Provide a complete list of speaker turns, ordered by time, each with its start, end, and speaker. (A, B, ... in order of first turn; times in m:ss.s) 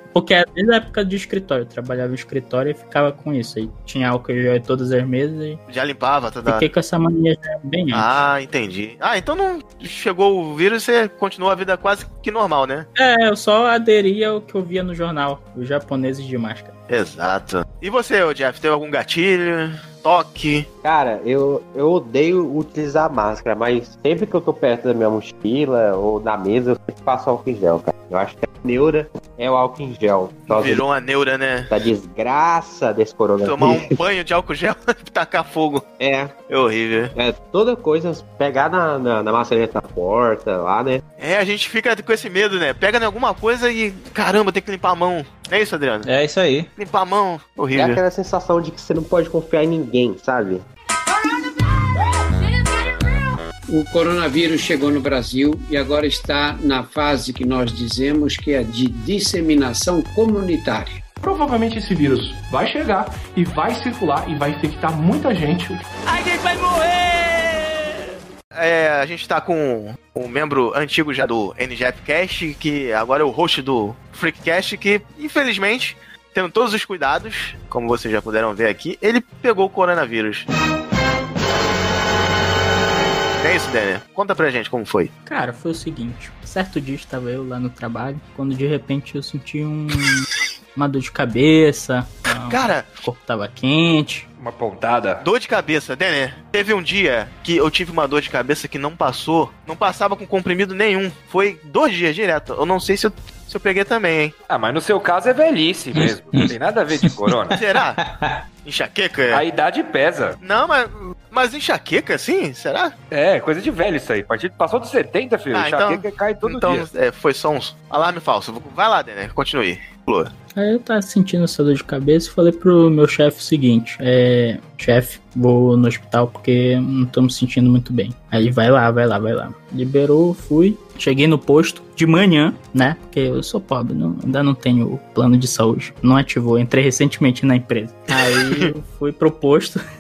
0:00.1-0:05.6 A
0:05.7-0:06.6 B
0:06.5-0:08.1 A
0:07.9-0:12.9 B
0:13.0-0:16.8 A
0:16.9-0:20.7 B
0:20.8-0:30.8 C
0:30.5-0:31.7 B
0:31.7-0:33.9 C
0:33.4-0:35.8 B
0:36.0-0:36.4 C
0:36.5-0:37.1 B
0:37.2-0:41.0 C
0:41.2-0:46.1 B
0:46.1-0:46.7 D
0:46.8-0:48.0 B
0:47.8-0:50.7 C
0:53.7-1:01.0 E
1:01.2-1:05.9 F
1:06.2-1:07.5 A
1:08.5-1:20.5 B
1:23.4-1:25.1 B
1:25.3-1:34.3 A
1:32.5-1:32.9 B
1:34.4-1:35.3 G
1:35.2-1:44.4 B
1:44.5-1:47.6 G
1:46.0-1:46.4 D
1:47.0-1:48.4 D
1:47.6-1:48.0 B
1:48.6-1:49.4 B
1:49.3-1:50.4 G
1:50.4-1:52.9 B
1:53.1-1:56.9 G
1:55.5-2:00.3 B
2:00.6-2:19.8 A